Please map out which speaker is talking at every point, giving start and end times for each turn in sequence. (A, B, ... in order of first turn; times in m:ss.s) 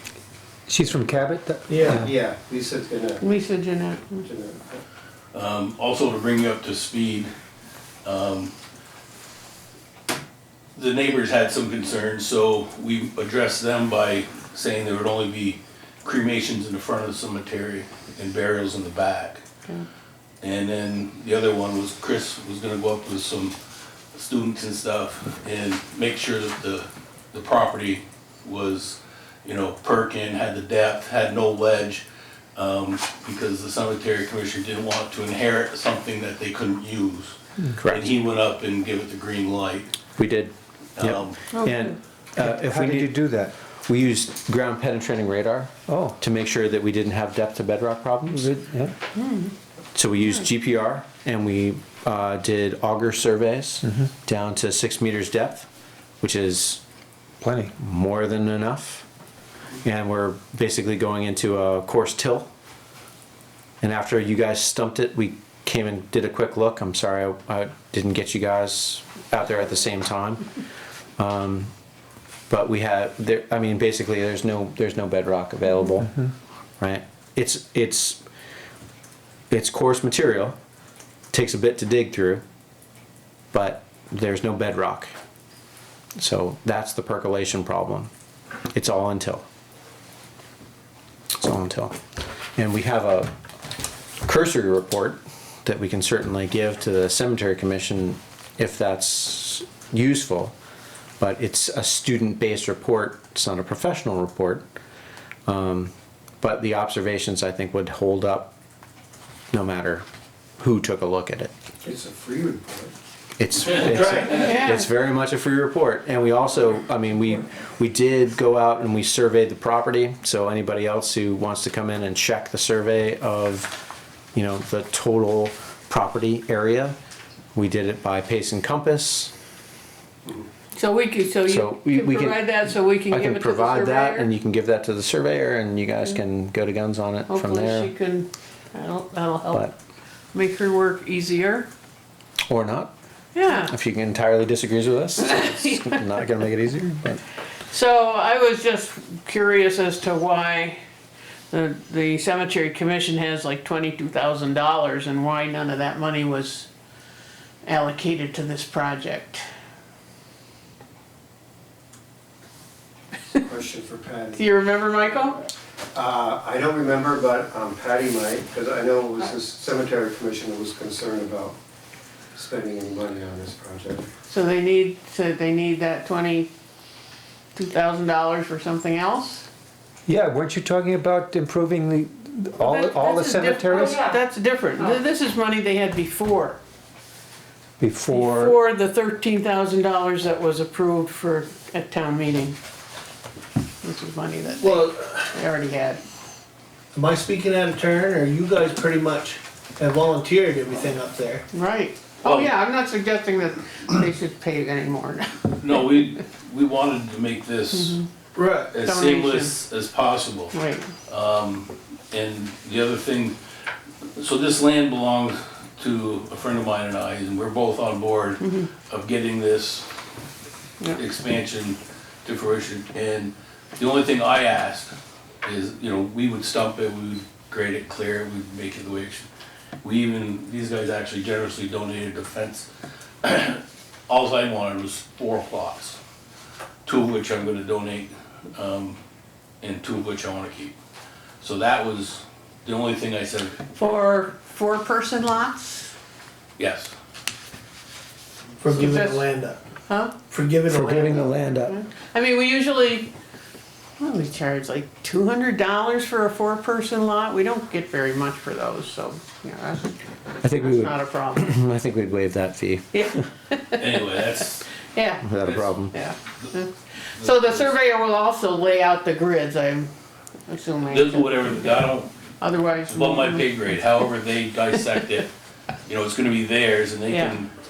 0:00.7-0:02.1 A
0:01.7-0:02.0 B
0:01.9-0:03.2 C
0:03.2-0:04.2 D
0:04.2-0:04.8 C
0:05.3-0:07.3 E
0:08.0-0:08.5 E
0:10.8-0:19.4 E
0:20.4-0:23.6 E
0:24.1-0:39.9 E
0:37.8-0:38.1 F
0:40.2-0:43.1 F
0:41.0-0:41.4 E
0:41.5-0:41.9 D
0:42.4-0:43.5 A
0:43.8-0:48.5 F
0:45.9-0:46.2 A
0:48.3-0:49.0 A
0:49.2-0:49.5 D
0:50.0-0:55.7 F
0:56.2-0:56.8 F
0:57.4-0:57.7 A
0:57.8-0:59.1 F
0:59.8-1:02.5 F
1:03.8-1:10.5 F
1:11.2-1:11.7 F
1:12.5-1:16.1 F
1:16.8-1:18.2 F
1:19.5-1:20.6 F
1:21.3-1:22.4 F
1:23.5-1:25.1 F
1:26.2-1:28.1 F
1:28.7-1:29.4 F
1:31.4-1:32.0 F
1:32.6-1:33.3 F
1:34.2-1:40.5 F
1:41.2-1:44.6 F
1:45.5-1:48.5 F
1:49.5-1:50.0 F
1:50.6-1:51.5 F
1:51.8-1:52.9 C
1:53.4-2:03.7 F
1:54.3-1:54.9 D
2:04.3-2:07.0 F
2:07.6-2:09.3 F
2:10.7-2:14.3 D
2:11.5-2:17.9 F
2:17.3-2:19.7 D
2:20.3-2:21.7 D
2:22.5-2:22.9 F
2:23.4-2:23.7 D
2:23.5-2:27.2 F
2:25.3-2:25.9 D
2:27.7-2:30.8 D
2:31.5-2:36.7 D
2:37.6-2:39.4 D
2:43.4-2:44.5 C
2:44.3-2:45.5 D
2:45.9-2:51.6 C
2:52.3-2:54.1 C
2:54.3-2:56.5 D
2:57.6-2:59.5 D
3:00.1-3:04.0 A
3:02.6-3:06.6 D
3:07.8-3:08.6 A
3:08.1-3:12.6 D
3:13.8-3:16.0 D
3:14.6-3:15.2 B
3:16.9-3:21.4 B
3:21.5-3:26.0 D
3:25.6-3:28.0 E
3:27.7-3:28.1 D
3:28.4-3:28.7 B
3:28.7-3:30.6 E
3:28.8-3:29.6 D
3:30.5-3:30.9 D
3:31.1-3:33.4 E
3:34.2-3:39.9 E
3:38.4-3:38.7 D
3:40.9-3:49.3 E
3:49.8-3:52.7 E
3:53.2-3:56.0 E
3:56.8-3:59.0 E
3:59.6-4:00.8 E
4:01.4-4:03.6 E
4:03.8-4:05.9 D
4:06.6-4:06.9 E
4:08.6-4:09.6 B
4:08.7-4:09.3 D
4:09.9-4:10.2 D
4:10.3-4:11.2 B
4:10.7-4:11.8 F
4:11.5-4:13.1 D
4:14.0-4:21.6 D
4:20.4-4:23.2 F
4:22.9-4:24.0 D
4:23.8-4:24.7 E
4:24.9-4:25.3 D
4:25.2-4:26.0 F
4:25.9-4:29.9 D
4:27.2-4:27.7 E
4:30.5-4:31.9 D
4:30.9-4:32.1 E
4:32.4-4:34.0 D
4:32.9-4:35.3 E
4:35.9-4:37.6 E
4:37.1-4:37.4 D